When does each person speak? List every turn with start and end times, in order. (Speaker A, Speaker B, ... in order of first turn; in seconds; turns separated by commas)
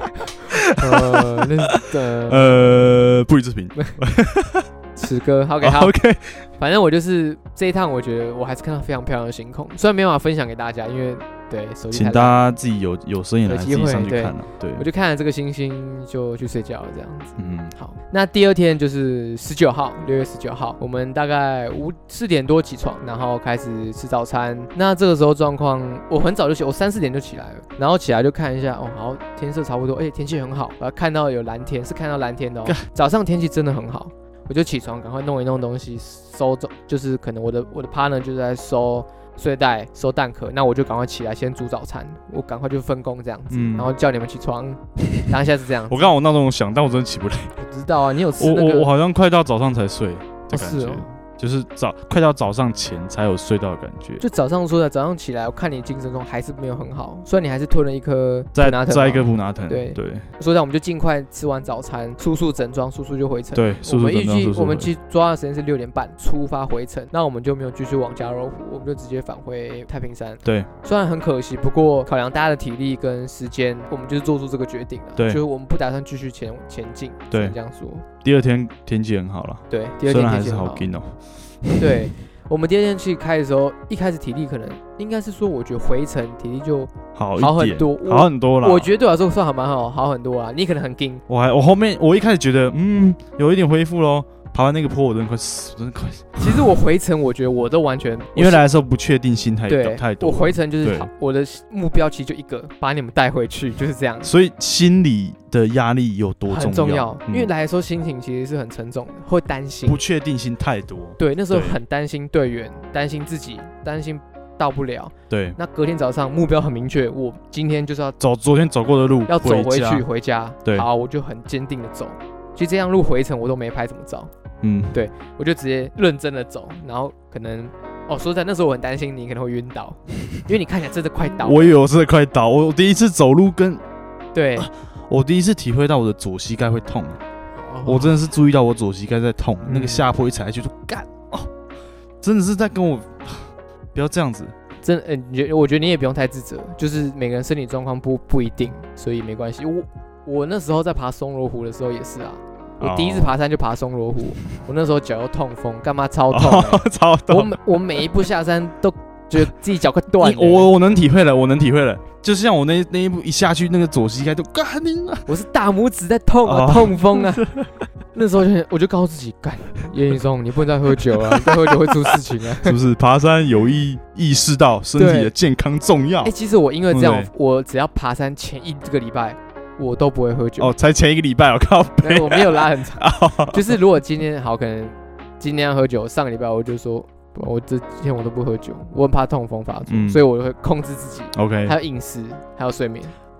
Speaker A: 0.5-4.7, Speaker B: 0.5-3.2, Speaker B: 5.0-5.9, Speaker A: 5.6-6.5, Speaker B: 6.6-12.4, Speaker A: 11.9-14.9, Speaker B: 13.5-46.1, Speaker A: 17.4-17.7, Speaker A: 43.5-43.9, Speaker A: 45.9-47.5, Speaker B: 47.6-48.9, Speaker A: 48.4-54.2, Speaker B: 50.5-51.1, Speaker B: 54.2-78.0, Speaker A: 58.5-60.3, Speaker A: 63.5-64.9, Speaker A: 70.4-70.7, Speaker A: 75.2-75.4, Speaker A: 77.3-77.6, Speaker A: 78.2-82.0, Speaker B: 79.7-80.9, Speaker B: 81.8-91.2, Speaker A: 87.2-88.9, Speaker A: 91.3-96.7, Speaker B: 96.4-98.7, Speaker A: 98.4-101.1, Speaker B: 99.7-104.3, Speaker A: 104.2-107.5, Speaker B: 106.5-110.0, Speaker A: 109.9-111.8, Speaker B: 111.2-118.2, Speaker A: 115.3-115.6, Speaker A: 118.2-120.1, Speaker B: 119.3-124.3, Speaker A: 124.6-125.0, Speaker B: 124.9-131.7, Speaker A: 131.4-133.8, Speaker B: 134.3-134.7, Speaker A: 134.6-137.2, Speaker B: 137.6-138.2, Speaker A: 137.8-141.5, Speaker B: 139.7-140.1, Speaker A: 142.2-144.5, Speaker B: 144.8-160.7, Speaker A: 152.8-153.3, Speaker A: 156.3-157.6, Speaker A: 160.2-165.3, Speaker B: 165.3-167.5, Speaker A: 166.4-167.7, Speaker B: 168.1-172.8, Speaker A: 171.1-176.3, Speaker B: 175.0-175.3, Speaker B: 176.2-180.7, Speaker A: 176.9-177.3, Speaker A: 180.6-183.8, Speaker B: 182.0-193.2, Speaker A: 189.9-190.2, Speaker A: 191.3-191.8